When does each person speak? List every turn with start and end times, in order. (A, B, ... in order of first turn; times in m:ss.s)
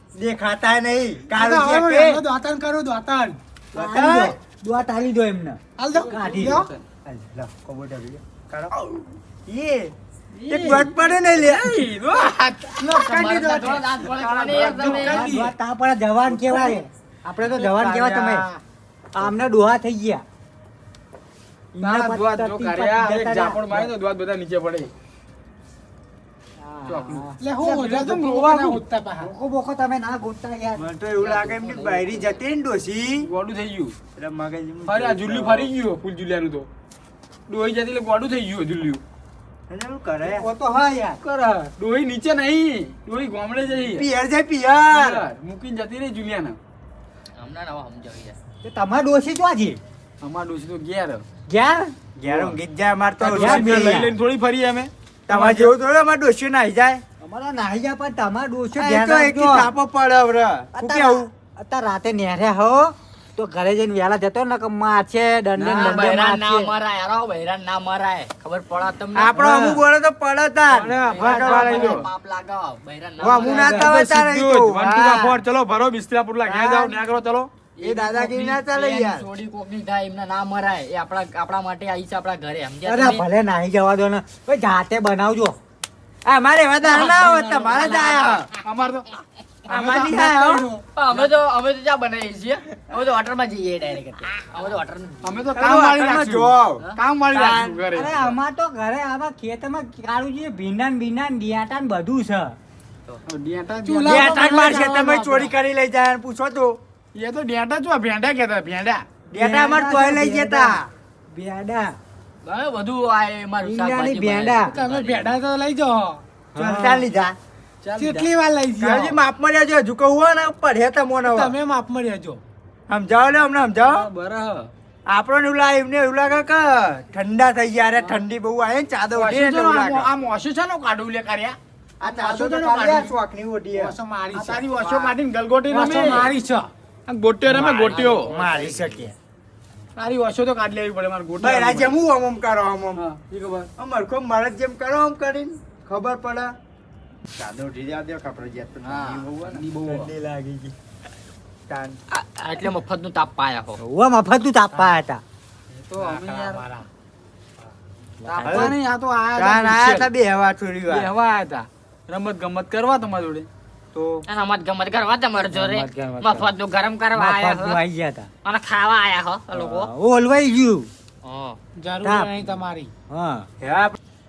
0:00.1-0:02.2 A
0:01.3-0:03.4 B
0:03.7-0:04.4 A
0:03.7-0:06.7 C
0:05.8-0:06.7 B
0:06.0-0:06.8 D
0:07.1-0:08.7 A
0:09.5-0:09.9 A
0:10.3-0:12.7 D
0:10.5-0:11.8 A
0:12.7-0:13.9 B
0:12.9-0:15.4 E
0:14.3-0:14.6 D
0:14.5-0:15.5 B
0:14.6-0:18.5 C
0:16.3-0:16.8 D
0:17.5-0:18.5 D
0:19.1-0:20.2 C
0:21.7-0:23.9 C
0:21.8-0:24.9 D
0:26.6-0:27.4 C
0:26.9-0:28.8 D
0:27.4-0:29.3 B
0:29.2-0:30.8 C
0:30.8-0:33.2 A
0:31.2-0:32.4 E
0:33.2-0:34.0 D
0:34.2-0:35.7 A
0:34.8-0:36.7 D
0:37.5-0:39.0 D
0:39.7-0:40.5 A
0:40.2-0:41.2 C
0:41.2-0:44.1 D
0:43.9-0:45.2 A
0:44.9-0:46.6 D
0:47.4-0:48.4 E
0:48.6-0:49.8 C
0:50.2-0:51.2 D
0:51.5-0:52.0 C
0:52.2-0:54.1 A
0:52.3-0:52.6 D
0:53.2-0:55.7 D
0:53.3-0:54.1 C
0:55.3-0:57.0 A
0:57.2-0:59.7 C
0:58.8-1:01.3 A
1:00.8-1:06.7 C
1:05.6-1:06.1 D
1:05.7-1:09.4 E
1:09.2-1:12.1 A
1:09.4-1:09.8 C
1:10.7-1:12.1 D
1:11.0-1:13.8 E
1:13.2-1:15.4 A
1:13.3-1:17.5 D
1:13.4-1:13.9 C
1:16.4-1:17.0 A
1:17.8-1:23.2 E
1:17.8-1:19.2 A
1:22.8-1:25.6 C
1:26.2-1:28.5 A
1:26.8-1:28.4 E
1:28.1-1:29.1 D
1:29.7-1:30.1 D
1:29.7-1:30.7 A
1:30.1-1:30.8 B
1:30.9-1:35.4 E
1:35.2-1:38.4 D
1:35.6-1:37.8 A
1:37.9-1:42.6 C
1:43.3-1:44.4 D
1:43.8-1:45.5 B
1:44.0-1:46.8 A
1:47.1-1:49.1 D
1:49.3-1:52.0 C
1:49.3-1:50.8 A
1:52.4-1:55.4 E
1:53.6-1:54.8 C
1:54.7-1:56.2 B
1:56.6-1:57.4 A
1:57.8-1:58.3 D
1:58.0-1:59.2 B
1:58.8-2:01.5 A
2:01.2-2:02.4 B
2:02.9-2:04.1 A
2:03.8-2:04.7 D
2:05.1-2:10.1 A
2:09.1-2:11.6 D
2:12.0-2:14.0 A
2:12.1-2:13.0 B
2:12.4-2:13.1 D
2:13.7-2:15.2 B
2:14.3-2:16.3 D
2:15.7-2:16.7 B
2:17.1-2:18.3 D
2:17.5-2:19.1 A
2:17.8-2:19.1 E
2:20.0-2:22.0 D
2:21.4-2:23.0 A
2:22.9-2:23.7 D
2:23.8-2:26.5 A
2:27.3-2:30.8 A
2:28.8-2:30.1 D
2:31.7-2:32.0 A
2:32.1-2:33.8 E
2:33.8-2:35.2 C
2:35.7-2:36.6 D
2:36.0-2:36.6 A
2:38.2-2:38.8 C
2:38.3-2:40.1 D
2:38.4-2:38.7 A
2:39.4-2:41.1 A
2:40.9-2:43.5 D
2:43.9-2:44.2 A
2:44.3-2:47.8 E
2:45.5-2:46.5 C
2:47.1-2:48.3 C
2:48.4-2:49.9 E
2:49.5-2:50.9 C
2:51.2-2:51.6 E
2:51.8-2:52.9 B
2:52.0-2:52.5 C
2:53.1-2:53.5 C
2:53.6-2:54.0 A